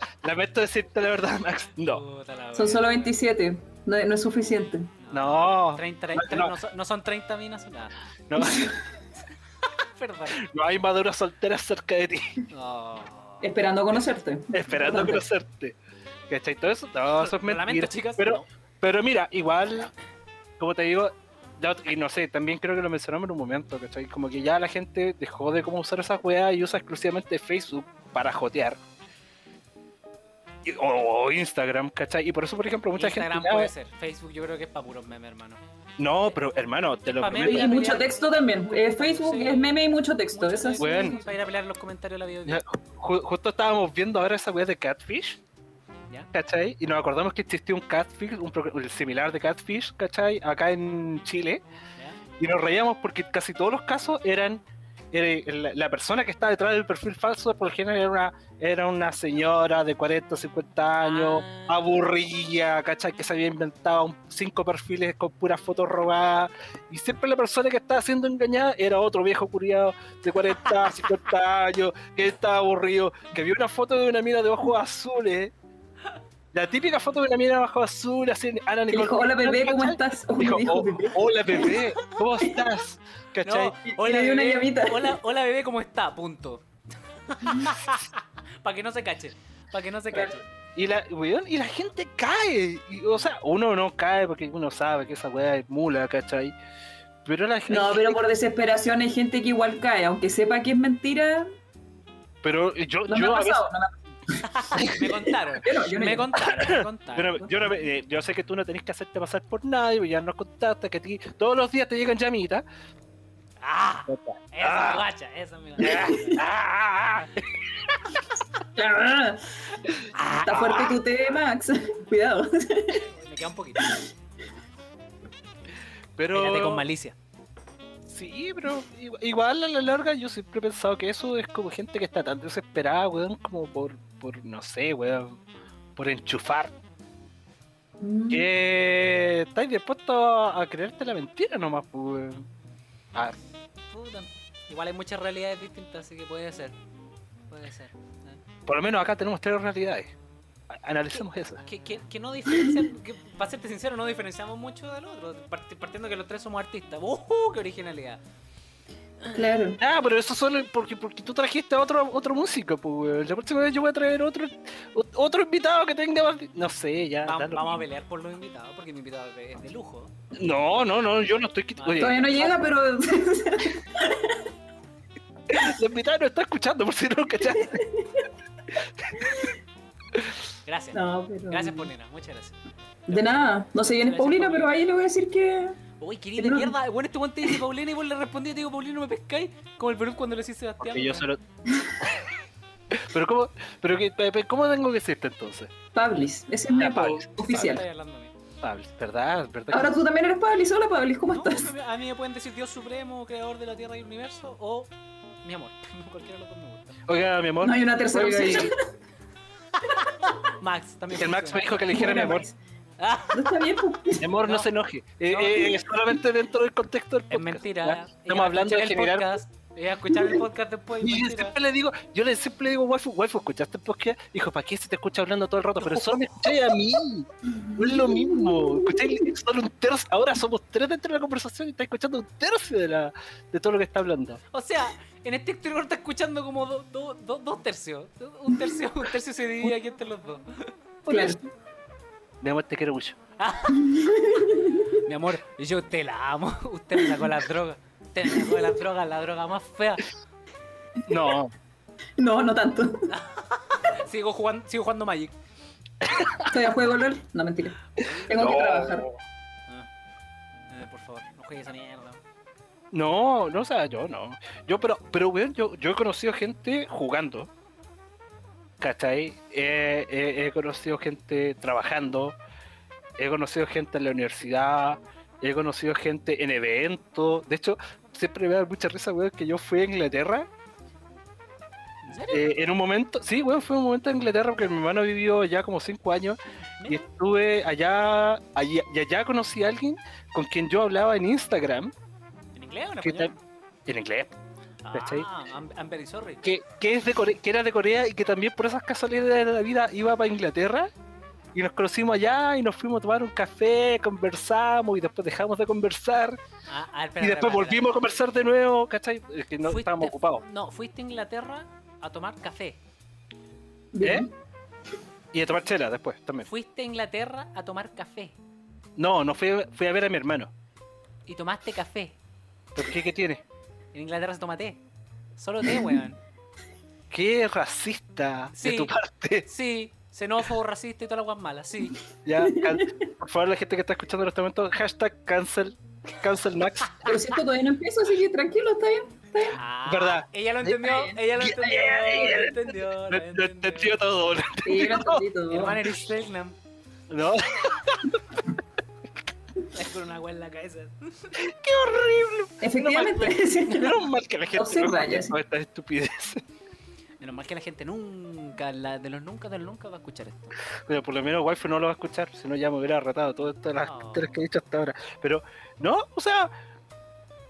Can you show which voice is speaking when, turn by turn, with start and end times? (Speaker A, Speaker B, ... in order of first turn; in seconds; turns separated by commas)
Speaker A: 0.2-2.0, Speaker B: 1.9-3.1, Speaker C: 2.5-4.9, Speaker B: 5.0-7.9, Speaker A: 5.1-6.5, Speaker A: 8.3-8.8, Speaker C: 8.4-8.7, Speaker B: 9.7-10.4, Speaker A: 10.4-12.4, Speaker B: 12.5-13.5, Speaker C: 13.4-15.2, Speaker A: 14.5-15.8, Speaker A: 16.3-19.9, Speaker B: 17.2-18.5, Speaker A: 20.6-28.8, Speaker A: 30.6-33.7, Speaker B: 32.9-35.6, Speaker A: 36.0-37.7, Speaker B: 37.0-39.8, Speaker C: 37.4-41.3, Speaker B: 40.3-42.6, Speaker A: 40.8-41.2, Speaker A: 42.5-45.4, Speaker A: 46.3-51.6, Speaker A: 52.4-54.6, Speaker A: 55.1-75.5, Speaker B: 61.0-61.9, Speaker A: 76.5-83.8, Speaker C: 78.9-81.7, Speaker B: 81.6-81.8, Speaker B: 83.4-86.7, Speaker C: 83.9-85.2, Speaker B: 87.3-90.5, Speaker A: 90.8-96.5, Speaker A: 97.2-98.2, Speaker C: 97.7-101.5, Speaker A: 102.4-103.6, Speaker C: 103.1-104.4, Speaker B: 104.4-107.5, Speaker A: 104.7-105.0, Speaker C: 105.0-106.3, Speaker A: 106.4-112.6, Speaker B: 113.6-116.4, Speaker A: 114.1-115.0, Speaker A: 115.8-117.7, Speaker C: 118.7-119.5, Speaker B: 120.1-120.9, Speaker C: 120.4-123.0, Speaker B: 123.0-124.0, Speaker C: 123.8-124.1, Speaker A: 126.2-126.8, Speaker B: 126.3-127.2, Speaker A: 128.1-135.4, Speaker A: 135.9-136.7, Speaker C: 138.0-138.5, Speaker A: 138.3-142.4, Speaker B: 143.9-146.8, Speaker B: 147.5-148.4, Speaker A: 148.7-150.1, Speaker A: 150.7-151.6, Speaker B: 151.1-158.2, Speaker C: 159.3-159.8, Speaker A: 159.8-167.8, Speaker B: 167.3-170.1, Speaker A: 170.4-172.4, Speaker B: 171.8-172.5, Speaker C: 172.0-174.4, Speaker A: 175.5-177.9, Speaker C: 177.5-178.2, Speaker A: 178.8-179.4, Speaker B: 180.7-184.7, Speaker C: 180.9-181.9, Speaker C: 183.1-185.8, Speaker B: 186.0-191.3, Speaker C: 186.4-186.7, Speaker A: 190.8-191.4, Speaker A: 192.9-195.7, Speaker C: 195.9-197.8, Speaker A: 196.8-197.8, Speaker B: 197.4-198.3, Speaker A: 198.6-199.9, Speaker C: 199.7-201.7, Speaker B: 201.3-204.9, Speaker B: 205.4-207.0, Speaker A: 207.1-208.7, Speaker C: 207.6-208.7, Speaker B: 209.8-211.9, Speaker A: 211.2-212.4, Speaker C: 211.9-212.6, Speaker B: 213.0-213.5, Speaker C: 213.3-214.3, Speaker A: 214.2-219.3, Speaker B: 215.3-215.8, Speaker B: 217.3-221.6, Speaker A: 221.0-234.4, Speaker B: 225.8-226.5, Speaker C: 227.5-229.3, Speaker B: 234.5-240.7, Speaker C: 241.1-241.4, Speaker A: 242.4-243.2, Speaker B: 243.4-250.1, Speaker C: 243.7-244.9, Speaker A: 251.1-251.5, Speaker C: 252.2-253.1, Speaker B: 253.1-255.3, Speaker A: 256.1-256.5, Speaker C: 256.5-257.8, Speaker B: 258.0-258.3, Speaker C: 258.3-259.1, Speaker A: 258.3-259.2, Speaker B: 260.7-262.2, Speaker A: 262.9-267.5, Speaker A: 268.8-272.4, Speaker A: 273.2-280.5, Speaker B: 282.0-282.5, Speaker A: 282.3-291.9, Speaker B: 286.8-287.1, Speaker B: 292.6-293.3, Speaker A: 293.0-293.3, Speaker A: 293.9-294.3, Speaker B: 294.8-296.4, Speaker A: 294.9-295.3, Speaker A: 296.4-300.9, Speaker A: 301.5-306.4, Speaker B: 306.7-307.9, Speaker A: 307.2-310.4, Speaker B: 309.6-312.8, Speaker C: 313.9-314.3, Speaker A: 314.0-314.3, Speaker A: 315.3-316.5, Speaker B: 316.4-318.4, Speaker A: 319.0-320.5, Speaker B: 321.3-322.2, Speaker A: 322.7-323.4, Speaker B: 323.9-324.8, Speaker B: 325.4-326.2, Speaker A: 327.1-329.5, Speaker B: 328.6-328.9, Speaker B: 329.4-332.0, Speaker A: 332.2-337.1, Speaker C: 332.4-332.9, Speaker C: 337.0-339.6, Speaker B: 339.5-344.0, Speaker A: 339.9-345.2, Speaker C: 344.6-345.8, Speaker B: 345.5-346.6, Speaker A: 347.1-348.2, Speaker B: 349.7-351.3, Speaker A: 351.4-356.4, Speaker C: 352.6-354.0, Speaker C: 354.5-355.3, Speaker B: 357.2-360.6, Speaker A: 360.9-366.5, Speaker B: 363.8-364.3